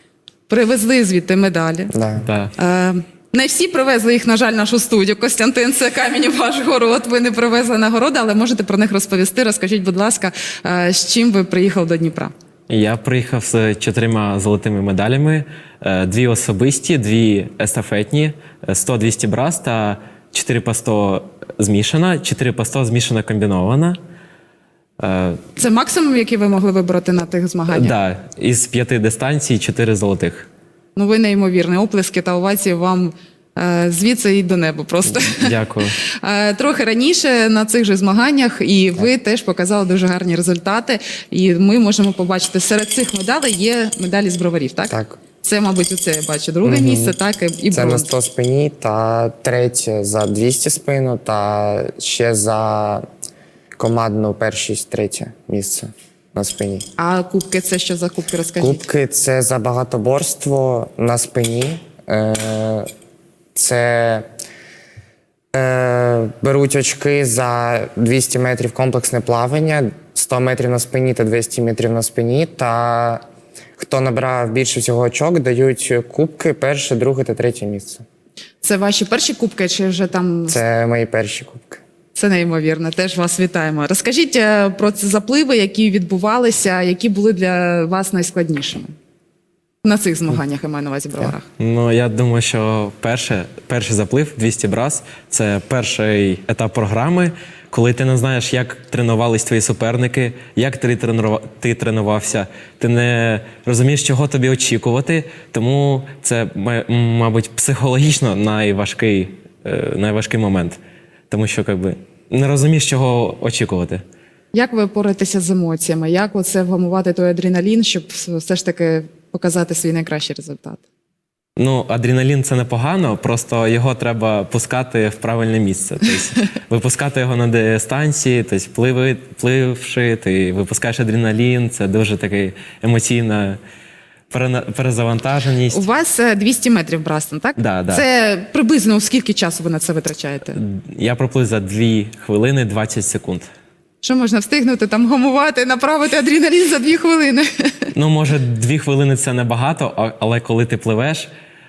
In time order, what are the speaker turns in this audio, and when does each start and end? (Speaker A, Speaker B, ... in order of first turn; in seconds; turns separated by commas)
Speaker A: 0.5-1.9, Speaker B: 1.9-2.3, Speaker C: 2.2-2.5, Speaker A: 2.6-12.3, Speaker C: 12.7-24.0, Speaker C: 25.0-25.4, Speaker A: 25.6-27.9, Speaker C: 27.7-30.5, Speaker A: 31.0-35.5, Speaker C: 35.1-36.0, Speaker A: 36.1-48.1, Speaker B: 44.9-45.2, Speaker B: 46.6-47.2, Speaker B: 47.7-53.0, Speaker B: 53.8-56.9, Speaker A: 57.0-58.8, Speaker B: 58.6-62.9, Speaker B: 63.5-64.3, Speaker B: 65.5-73.2, Speaker B: 73.8-78.0, Speaker A: 78.6-80.6, Speaker B: 80.5-81.8, Speaker A: 82.2-89.0, Speaker A: 89.8-91.5, Speaker C: 91.6-114.0, Speaker A: 114.5-120.8, Speaker C: 121.6-133.6, Speaker C: 134.3-135.8, Speaker A: 135.7-140.6, Speaker C: 137.6-138.1, Speaker C: 140.6-143.5, Speaker A: 144.0-147.9, Speaker C: 147.9-151.3